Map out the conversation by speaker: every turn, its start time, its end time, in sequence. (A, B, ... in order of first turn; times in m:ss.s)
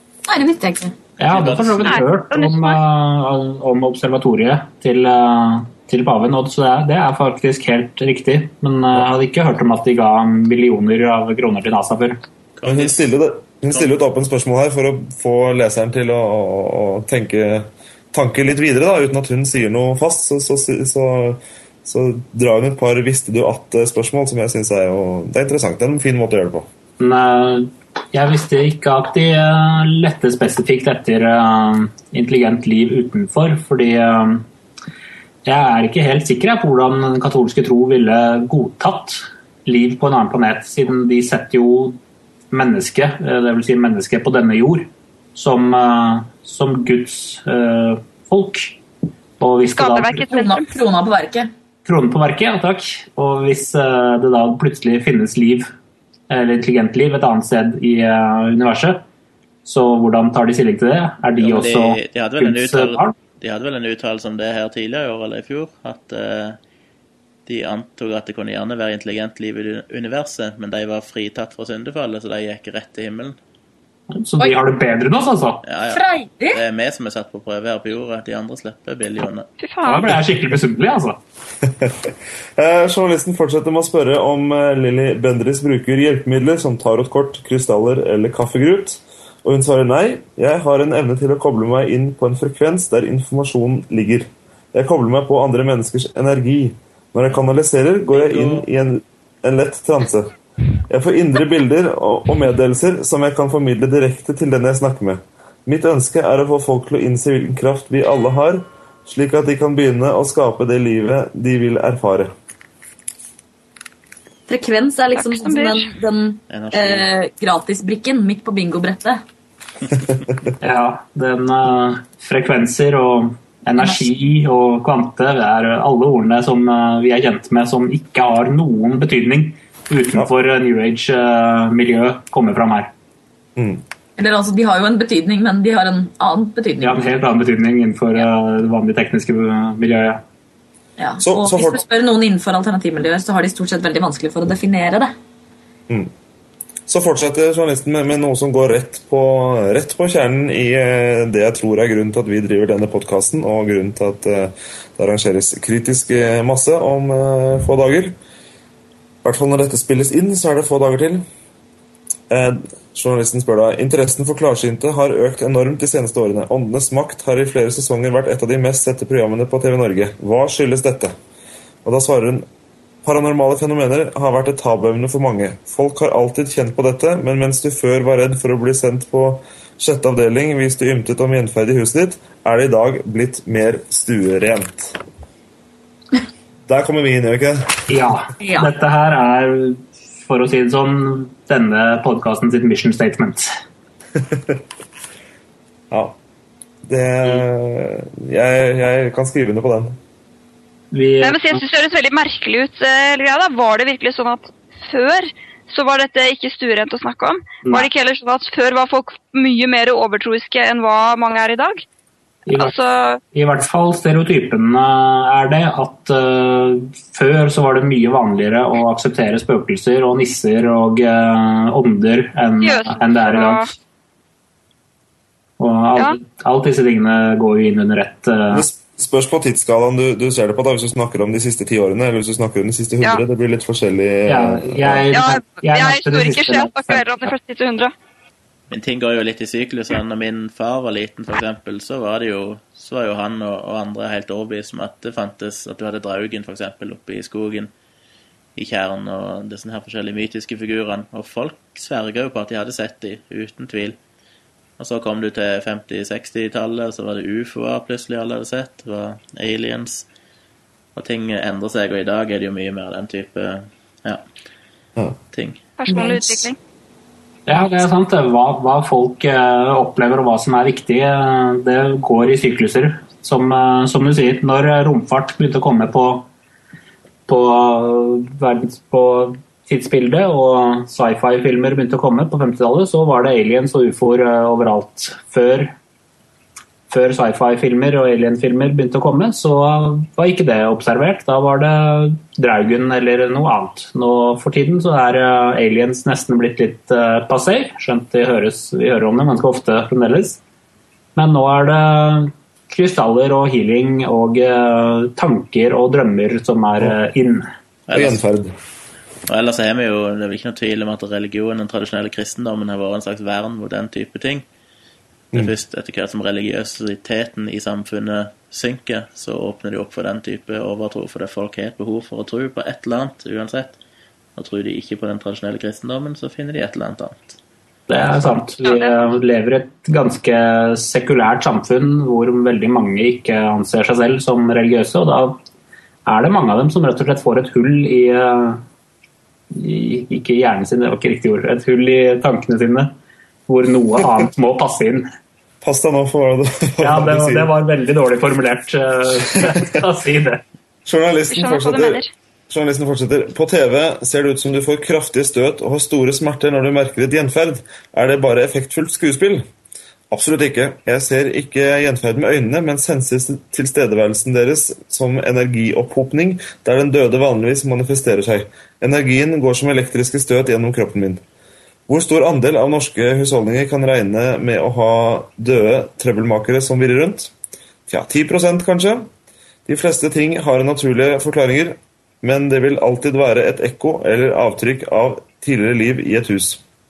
0:00.3-0:01.0 A
0:01.2-0:12.2 B
0:01.3-0:02.0 C
0:01.9-0:02.8 D
0:12.6-0:13.0 C
0:12.7-0:26.7 E
0:27.0-0:34.5 B
0:35.4-0:42.0 B
0:42.5-0:48.8 B
0:49.4-0:50.3 B
0:49.8-0:50.7 D
0:50.3-0:51.5 A
0:51.8-0:55.7 B
0:56.3-0:59.0 B
0:59.6-1:03.1 B
1:01.4-1:06.6 C
1:07.5-1:13.4 C
1:14.1-1:15.6 B
1:15.6-1:19.5 C
1:15.9-1:16.6 A
1:19.6-1:20.1 D
1:19.8-1:21.2 B
1:21.7-1:40.3 E
1:38.1-1:38.7 C
1:40.9-1:52.3 E
1:54.5-1:59.2 A
1:55.2-1:55.9 D
1:56.5-1:57.1 C
2:00.6-2:12.9 B
2:13.6-2:13.8 E
2:14.2-2:17.0 A
2:16.8-2:20.2 B
2:21.0-2:25.1 A
2:21.2-2:21.8 E
2:26.9-2:38.2 E
2:39.2-2:41.2 E
2:42.3-2:51.2 E
2:51.8-2:52.5 E
2:53.0-3:05.0 E
3:06.7-3:08.0 E
3:07.9-3:13.5 B
3:08.4-3:08.7 A
3:14.2-3:14.6 E
3:15.9-3:16.2 E
3:16.8-3:20.0 E
3:20.9-3:21.6 B
3:21.2-3:31.8 D
3:32.5-3:32.7 B
3:32.6-3:33.2 D
3:33.3-3:43.6 B
3:42.6-3:43.7 D
3:45.6-3:48.6 B
3:48.5-3:55.0 E
3:54.3-3:57.1 B
3:55.1-3:57.9 D
3:58.7-4:07.7 C
4:08.6-4:14.0 C
4:14.8-4:20.1 C
4:21.0-4:24.2 C
4:25.3-4:25.6 C
4:25.8-4:26.6 D
4:27.5-4:36.3 B
4:37.3-4:45.7 B
4:46.9-5:00.4 B
5:01.2-5:07.5 B
5:07.9-5:08.2 C
5:07.9-5:08.6 E
5:09.3-5:14.4 C
5:15.3-5:23.8 C
5:24.4-5:27.4 C
5:27.9-5:35.4 B
5:28.6-5:29.0 D
5:36.1-5:38.6 B
5:39.5-5:42.9 B
5:43.5-5:45.1 B
5:45.6-5:47.5 E
5:46.8-5:50.4 B
5:49.4-5:49.6 E
5:50.8-5:59.4 E
5:51.3-5:52.1 D
6:00.1-6:11.2 E
6:11.9-6:17.3 E
6:17.9-6:19.1 E
6:19.7-6:26.6 E